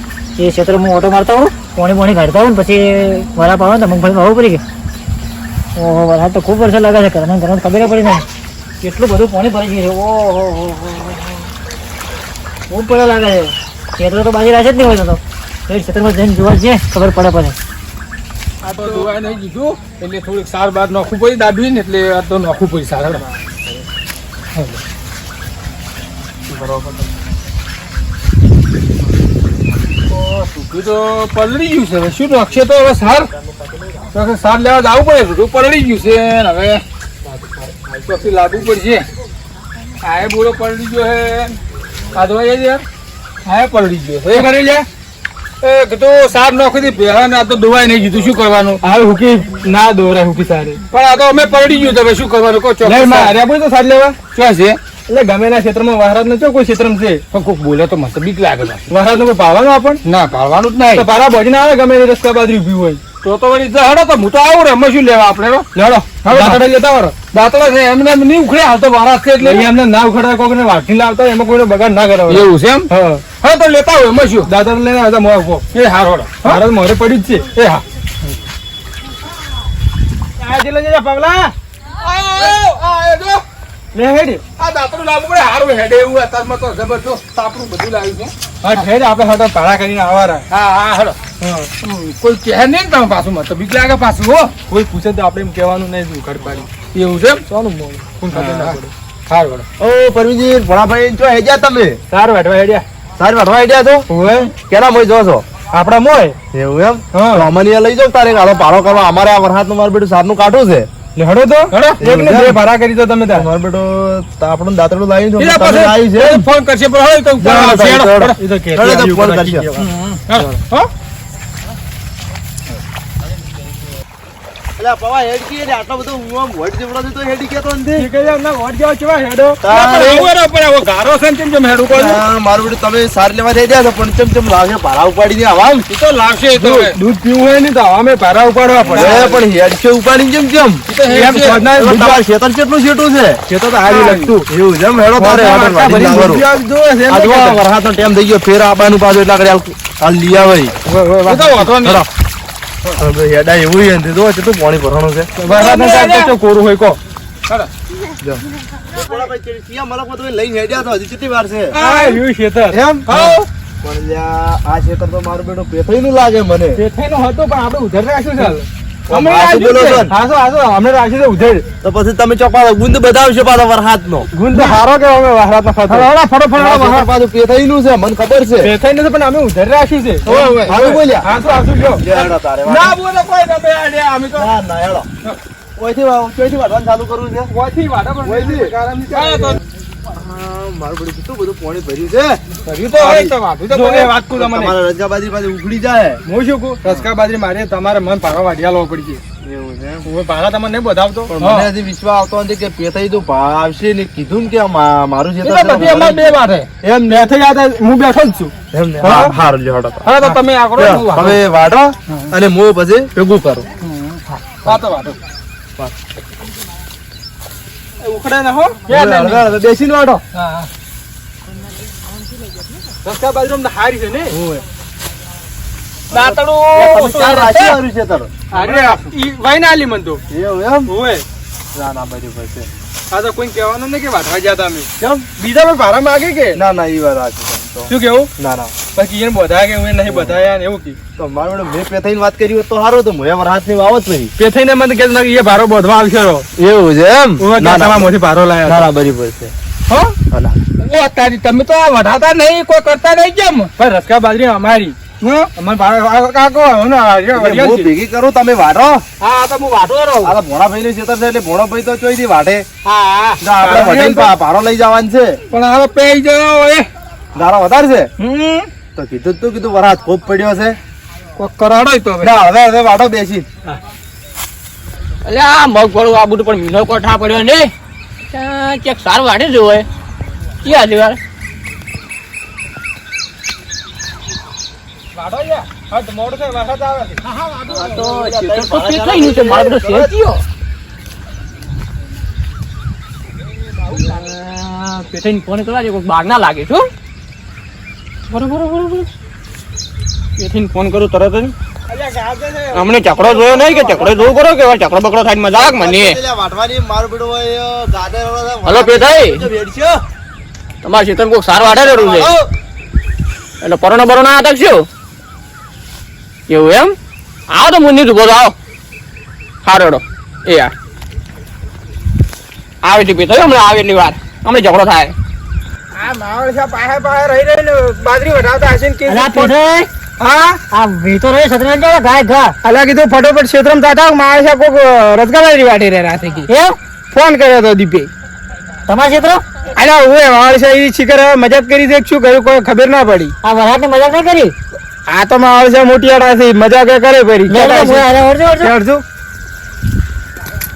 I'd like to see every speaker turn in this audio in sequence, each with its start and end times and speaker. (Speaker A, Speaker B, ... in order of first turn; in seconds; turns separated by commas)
Speaker A: 0.4-4.6, Speaker A: 5.8-8.2, Speaker A: 8.8-11.5, Speaker A: 12.7-17.6, Speaker B: 18.6-23.2, Speaker C: 26.5-27.0, Speaker B: 30.1-33.3, Speaker B: 34.1-36.8, Speaker B: 37.8-39.0, Speaker B: 40.0-41.6, Speaker B: 42.1-42.8, Speaker B: 43.5-44.5, Speaker D: 44.3-44.9, Speaker B: 45.6-48.8, Speaker D: 48.8-50.8, Speaker B: 50.9-53.4, Speaker D: 52.8-54.2, Speaker B: 54.2-54.8, Speaker D: 55.1-57.3, Speaker B: 57.3-58.8, Speaker D: 58.9-60.0, Speaker B: 60.0-61.1, Speaker D: 60.9-63.0, Speaker B: 63.2-66.6, Speaker D: 65.7-67.2, Speaker B: 67.2-69.7, Speaker D: 69.6-73.2, Speaker B: 72.3-74.5, Speaker D: 74.5-75.7, Speaker B: 75.7-76.6, Speaker D: 76.6-77.8, Speaker E: 80.5-81.3, Speaker D: 80.6-81.5, Speaker B: 82.0-83.4, Speaker E: 83.9-84.3, Speaker B: 84.5-88.8, Speaker D: 88.6-90.5, Speaker B: 90.5-91.3, Speaker D: 91.4-91.7, Speaker B: 91.8-94.5, Speaker D: 94.7-96.7, Speaker B: 96.6-98.8, Speaker D: 97.5-98.9, Speaker B: 99.3-99.6, Speaker C: 99.8-102.0, Speaker D: 102.1-102.8, Speaker C: 103.2-104.1, Speaker D: 104.1-104.5, Speaker C: 104.6-105.4, Speaker D: 105.7-106.3, Speaker C: 106.5-110.9, Speaker D: 107.1-107.5, Speaker D: 111.2-113.5, Speaker B: 111.7-112.1, Speaker C: 112.0-112.6, Speaker C: 113.3-116.5, Speaker B: 115.4-118.4, Speaker C: 117.4-119.7, Speaker D: 118.4-119.8, Speaker B: 119.8-120.5, Speaker C: 124.8-128.1, Speaker D: 128.0-129.6, Speaker C: 129.6-130.3, Speaker B: 129.7-132.2, Speaker C: 131.9-135.8, Speaker B: 135.9-137.0, Speaker D: 136.6-139.4, Speaker B: 138.1-139.3, Speaker C: 138.9-140.8, Speaker B: 140.9-141.7, Speaker D: 141.1-142.1, Speaker C: 141.6-143.4, Speaker D: 143.5-144.4, Speaker B: 143.9-144.4, Speaker C: 144.5-146.4, Speaker B: 145.3-146.4, Speaker D: 146.4-147.2, Speaker C: 147.1-150.8, Speaker B: 147.2-147.6, Speaker B: 150.9-152.0, Speaker C: 151.6-152.1, Speaker C: 153.0-155.3, Speaker D: 155.4-157.0, Speaker B: 155.4-156.8, Speaker E: 155.6-156.1, Speaker C: 158.2-161.8, Speaker B: 161.7-162.2, Speaker E: 161.8-162.2, Speaker D: 162.0-163.2, Speaker C: 162.7-166.8, Speaker B: 163.2-163.4, Speaker D: 166.8-168.6, Speaker C: 169.1-170.1, Speaker E: 169.6-170.0, Speaker D: 170.1-171.7, Speaker C: 171.8-174.3, Speaker D: 174.3-176.1, Speaker E: 175.9-176.5, Speaker C: 176.6-178.7, Speaker D: 178.6-180.2, Speaker C: 180.2-181.3, Speaker B: 180.3-181.0, Speaker D: 181.2-182.1, Speaker C: 182.0-183.0, Speaker B: 182.1-184.5, Speaker C: 184.3-185.1, Speaker C: 185.8-187.5, Speaker D: 187.5-189.5, Speaker C: 188.2-188.7, Speaker B: 189.1-189.6, Speaker C: 190.1-192.4, Speaker B: 192.7-194.1, Speaker D: 192.9-193.3, Speaker D: 194.1-194.7, Speaker C: 194.2-196.2, Speaker D: 196.3-199.2, Speaker B: 196.6-197.3, Speaker B: 198.7-199.2, Speaker C: 199.4-200.1, Speaker B: 200.0-201.6, Speaker D: 201.1-201.5, Speaker C: 201.3-206.3, Speaker B: 205.4-206.7, Speaker C: 206.8-207.3, Speaker D: 207.1-208.5, Speaker C: 208.7-210.1, Speaker B: 209.0-209.3, Speaker B: 210.0-211.4, Speaker C: 210.7-213.7, Speaker B: 213.9-215.2, Speaker D: 218.0-219.3, Speaker B: 218.1-218.4, Speaker C: 218.9-220.2, Speaker B: 220.3-220.7, Speaker D: 223.0-224.3, Speaker B: 223.1-224.1, Speaker C: 224.3-224.6, Speaker C: 226.1-228.3, Speaker B: 226.1-227.7, Speaker B: 228.5-229.4, Speaker E: 228.5-229.1, Speaker D: 229.5-230.2, Speaker C: 230.3-230.9, Speaker D: 230.9-231.2, Speaker C: 231.7-232.7, Speaker D: 233.1-234.9, Speaker B: 233.1-234.6, Speaker C: 235.0-235.3, Speaker B: 235.4-236.6, Speaker C: 236.5-238.7, Speaker D: 237.9-238.3, Speaker D: 238.9-241.0, Speaker C: 240.1-240.4, Speaker C: 241.2-244.3, Speaker D: 244.4-246.5, Speaker C: 246.6-248.1, Speaker D: 247.4-248.9, Speaker C: 248.7-249.5, Speaker C: 250.3-250.6, Speaker B: 250.8-253.7, Speaker D: 253.7-257.9, Speaker C: 257.3-259.0, Speaker B: 259.2-260.3, Speaker C: 260.2-262.6, Speaker B: 262.8-264.3, Speaker C: 263.4-265.4, Speaker B: 265.5-266.9, Speaker C: 267.3-268.1, Speaker B: 268.2-268.6, Speaker C: 268.9-270.8, Speaker B: 271.4-272.3, Speaker C: 272.2-273.5, Speaker F: 275.2-277.7, Speaker F: 278.3-279.9, Speaker F: 280.6-281.2, Speaker D: 285.7-287.2, Speaker F: 287.4-290.4, Speaker C: 287.7-290.1, Speaker F: 293.9-296.9, Speaker F: 298.3-299.1, Speaker F: 300.4-301.5, Speaker E: 301.9-304.2, Speaker F: 302.7-306.2, Speaker C: 305.5-310.0, Speaker F: 308.6-309.5, Speaker F: 310.8-312.4, Speaker C: 311.6-312.5, Speaker F: 313.6-314.9, Speaker F: 316.5-317.0, Speaker F: 317.5-318.5, Speaker F: 319.6-320.7, Speaker F: 322.8-325.1, Speaker E: 325.9-329.5, Speaker A: 329.1-329.9, Speaker E: 330.2-330.6, Speaker A: 330.7-332.6, Speaker E: 332.6-336.5, Speaker A: 336.5-336.8, Speaker E: 337.1-338.1, Speaker A: 338.9-339.4, Speaker E: 339.8-343.3, Speaker A: 343.4-344.5, Speaker E: 345.1-348.1, Speaker A: 347.5-348.7, Speaker E: 348.6-349.0